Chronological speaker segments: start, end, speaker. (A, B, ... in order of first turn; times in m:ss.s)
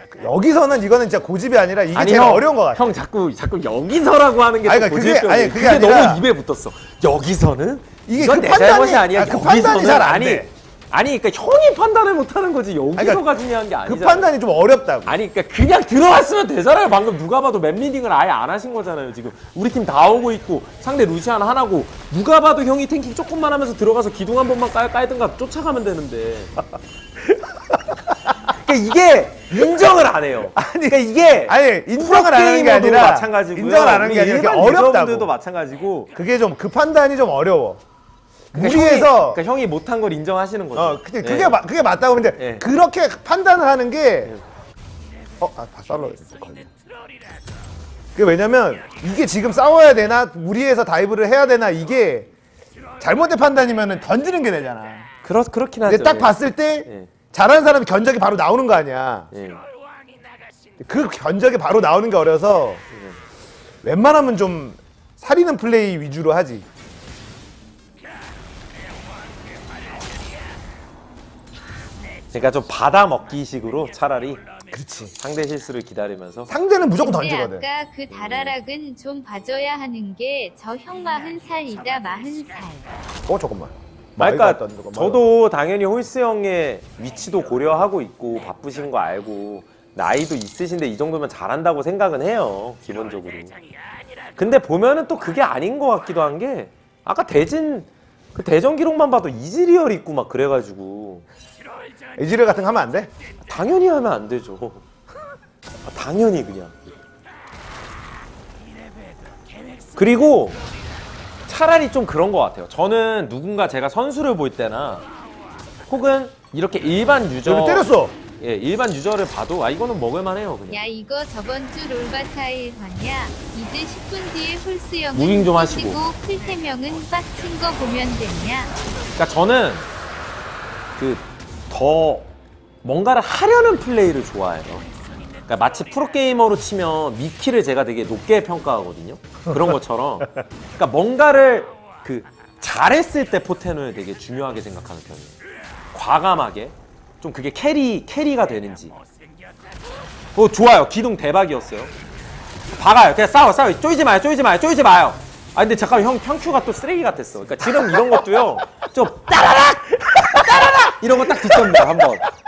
0:00.1-0:02.9 A
0:01.9-0:14.3 B
0:04.6-0:06.2 A
0:08.1-0:10.5 A
0:13.0-0:13.2 A
0:13.8-0:15.1 A
0:15.0-0:26.6 B
0:27.7-0:28.3 A
0:28.5-0:36.1 B
0:30.6-0:35.3 A
0:36.1-0:37.8 A
0:38.5-0:39.4 A
0:38.5-0:41.6 B
0:40.7-0:44.3 A
0:42.4-0:42.6 B
0:45.4-0:46.7 A
0:48.1-0:52.3 A
0:53.0-0:55.1 A
0:55.2-0:57.1 B
0:55.8-0:59.3 A
0:59.3-0:59.6 B
1:00.8-1:02.8 A
1:02.9-1:03.2 B
1:03.8-1:06.6 A
1:12.3-1:14.4 B
1:14.7-1:15.1 A
1:15.2-1:16.5 B
1:16.5-1:17.6 A
1:17.0-1:22.9 C
1:18.1-1:18.5 B
1:23.3-1:25.2 A
1:24.2-1:33.6 B
1:34.4-1:41.2 B
1:42.2-1:43.1 A
1:43.5-1:44.8 B
1:45.8-1:46.8 B
1:50.0-1:50.6 B
1:51.5-1:55.0 B
1:55.9-2:00.8 B
1:57.4-1:58.2 A
2:00.7-2:08.7 C
2:05.1-2:06.0 B
2:09.2-2:09.9 B
2:11.0-2:12.3 B
2:12.8-2:14.9 B
2:15.5-2:25.4 B
2:25.9-2:29.0 B
2:30.3-2:31.9 B
2:32.7-2:42.2 B
2:40.1-2:41.8 A